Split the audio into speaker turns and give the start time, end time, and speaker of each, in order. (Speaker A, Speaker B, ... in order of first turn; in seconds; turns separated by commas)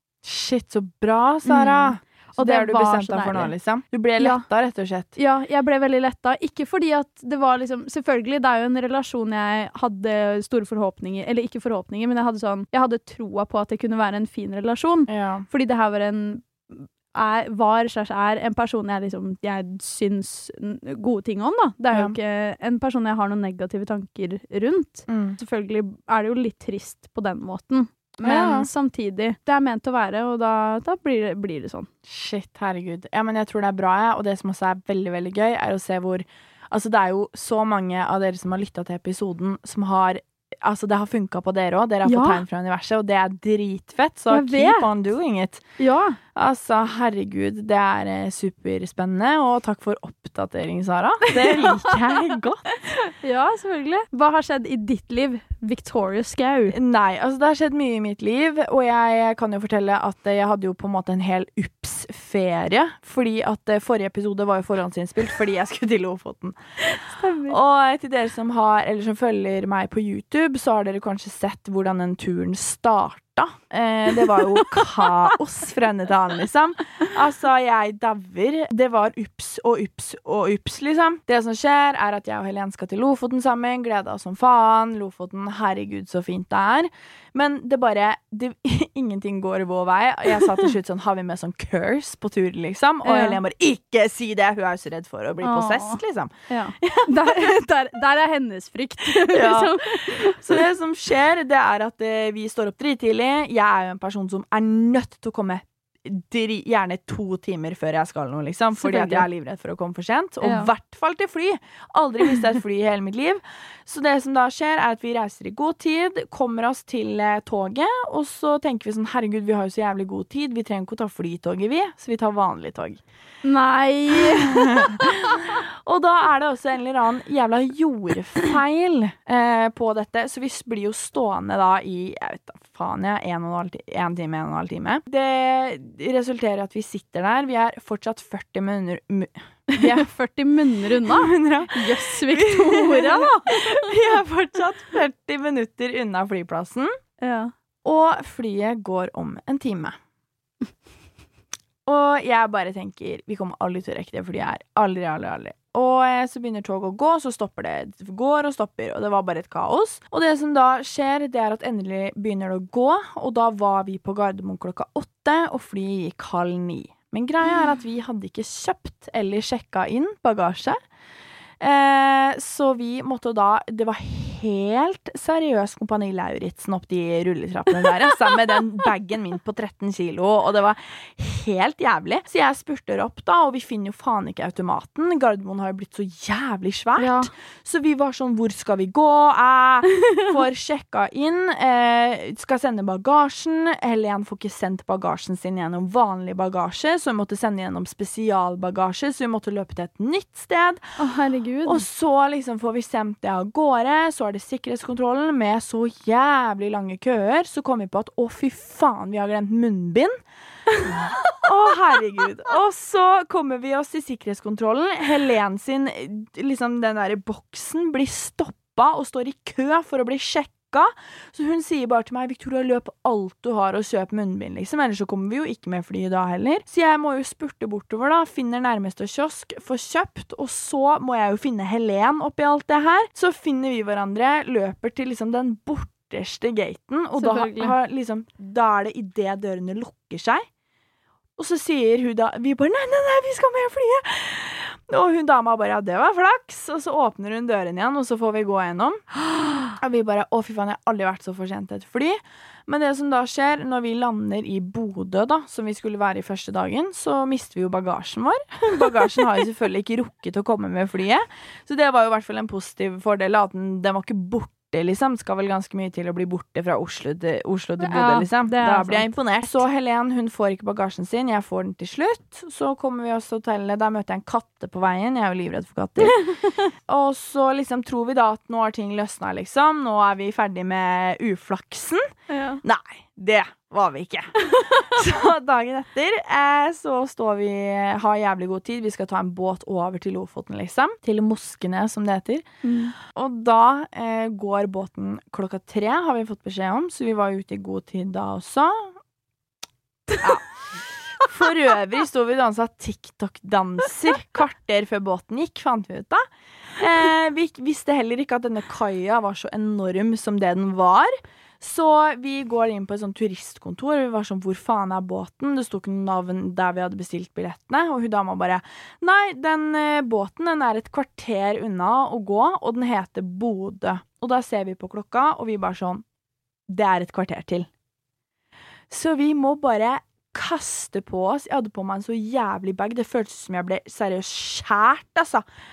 Speaker A: 0.2-5.1, Speaker B: 1.4-3.5, Speaker B: 4.2-4.5, Speaker B: 5.2-31.9, Speaker A: 15.1-15.4, Speaker A: 25.1-25.4, Speaker A: 28.2-28.7, Speaker A: 32.1-45.7, Speaker B: 42.0-42.4, Speaker B: 44.3-44.9, Speaker B: 45.8-46.2, Speaker A: 46.4-52.7, Speaker B: 51.3-52.0, Speaker B: 52.9-56.8, Speaker A: 56.7-66.6, Speaker B: 66.8-67.6, Speaker A: 67.5-97.5, Speaker B: 74.2-74.9, Speaker B: 93.0-93.4, Speaker B: 95.4-100.6, Speaker A: 99.0-123.0, Speaker B: 108.8-109.3, Speaker B: 110.4-110.7, Speaker B: 123.4-125.5, Speaker A: 124.1-140.1, Speaker B: 139.7-143.9, Speaker A: 141.0-146.9, Speaker B: 147.2-147.5, Speaker A: 147.8-149.9, Speaker A: 151.9-170.8, Speaker A: 171.6-200.8, Speaker B: 187.0-187.3, Speaker B: 201.0-201.8, Speaker A: 201.7-210.1, Speaker B: 210.7-211.4, Speaker A: 210.9-240.4, Speaker B: 237.2-237.8, Speaker A: 241.4-276.2, Speaker B: 267.8-269.1, Speaker B: 276.0-276.7, Speaker A: 276.9-282.0, Speaker B: 282.3-282.6, Speaker A: 282.6-292.5, Speaker B: 284.4-284.8, Speaker B: 292.6-292.9, Speaker A: 293.0-298.9, Speaker A: 300.2-306.2, Speaker A: 306.8-326.0, Speaker A: 326.7-327.7, Speaker A: 328.9-335.4